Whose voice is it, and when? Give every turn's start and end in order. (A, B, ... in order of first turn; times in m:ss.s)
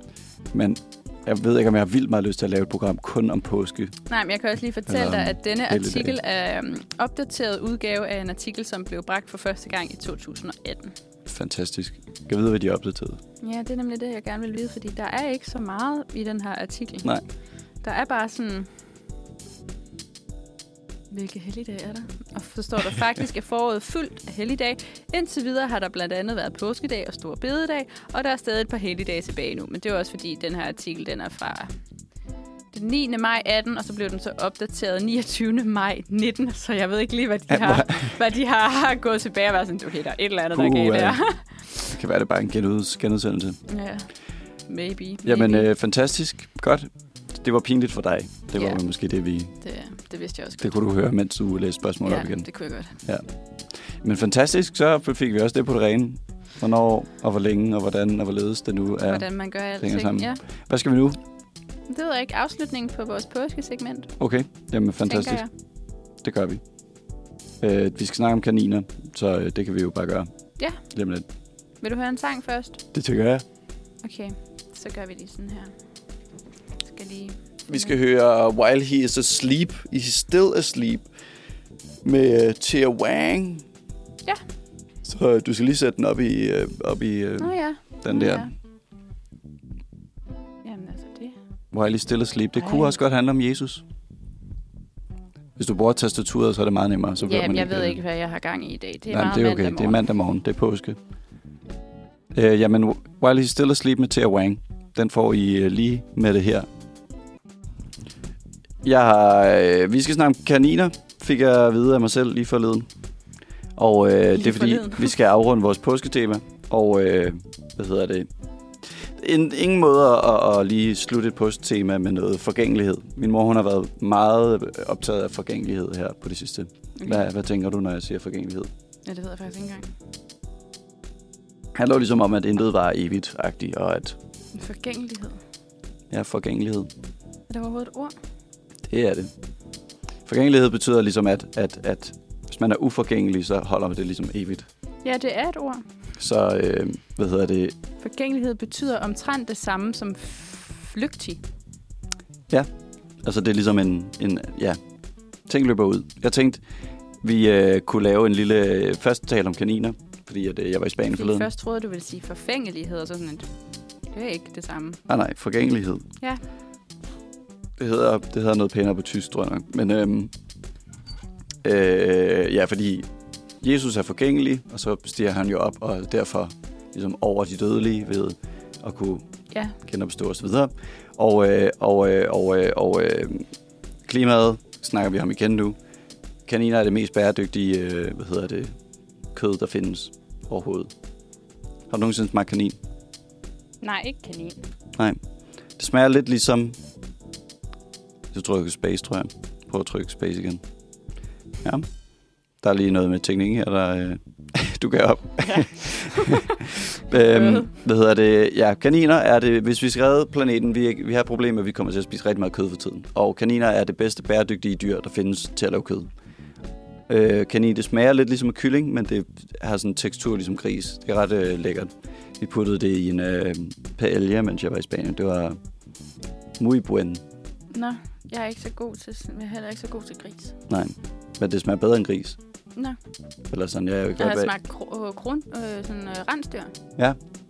0:00.5-0:03.9 A
0:04.1-0:10.9 B
0:04.9-0:06.2 A
0:11.2-0:13.2 A
0:13.4-0:17.1 B
0:17.8-0:18.7 B
0:21.1-0:31.7 B
0:32.7-0:41.9 B
0:37.5-0:38.1 A
0:40.5-0:41.2 A
0:41.8-0:43.6 A
0:43.7-0:44.1 B
0:44.7-0:45.7 B
0:45.2-0:49.5 A
0:49.6-0:50.7 B
0:50.6-0:53.2 A
0:52.0-0:53.0 B
0:54.0-0:59.3 A
0:59.0-1:00.4 B
0:59.8-1:01.2 A
1:01.9-1:04.1 B
1:04.2-1:05.4 A
1:05.0-1:05.5 B
1:06.2-1:06.6 A
1:07.6-1:10.3 A
1:10.8-1:11.2 A
1:11.8-1:12.8 B
1:12.9-1:13.4 A
1:14.0-1:15.7 B
1:16.8-1:17.9 B
1:17.7-1:21.1 A
1:22.0-1:23.6 A
1:25.0-1:28.5 A
1:27.4-1:28.5 B
1:30.6-1:31.4 B
1:31.7-1:33.8 A
1:32.6-1:32.9 B
1:35.6-1:38.0 A
1:37.2-1:40.0 B
1:39.1-1:41.0 A
1:42.3-1:46.7 A
1:48.8-1:52.9 A
1:53.7-1:58.3 A
1:54.3-1:55.1 B
1:58.9-2:08.7 A
2:09.0-2:09.9 B
2:11.7-2:14.2 A
2:14.5-2:15.4 B
2:16.1-2:16.9 A
2:17.5-2:18.1 B
2:18.9-2:19.3 A
2:20.2-2:24.7 A
2:25.0-2:25.8 B
2:26.2-2:27.7 A
2:28.0-2:31.4 B
2:33.2-2:34.8 A
2:35.5-2:36.6 A
2:37.2-2:41.5 A
2:41.1-2:43.5 B
2:44.1-2:45.0 B
2:45.1-2:46.0 A
2:47.8-2:50.3 A
2:51.6-2:53.1 A
2:53.6-2:59.2 A
2:59.5-2:59.8 B
2:59.8-3:03.5 A
3:04.1-3:05.8 A
3:06.4-3:08.7 A
3:09.3-3:10.9 A
3:11.9-3:12.8 A
3:13.8-3:14.6 B
3:15.8-3:16.8 A
3:18.3-3:20.6 A
3:22.6-3:36.1 A
3:25.4-3:27.7 B
3:37.1-3:45.6 A
3:46.6-3:47.2 A
3:47.7-3:50.6 B
3:50.7-3:52.4 A
3:53.5-3:54.5 A
3:54.2-3:56.7 B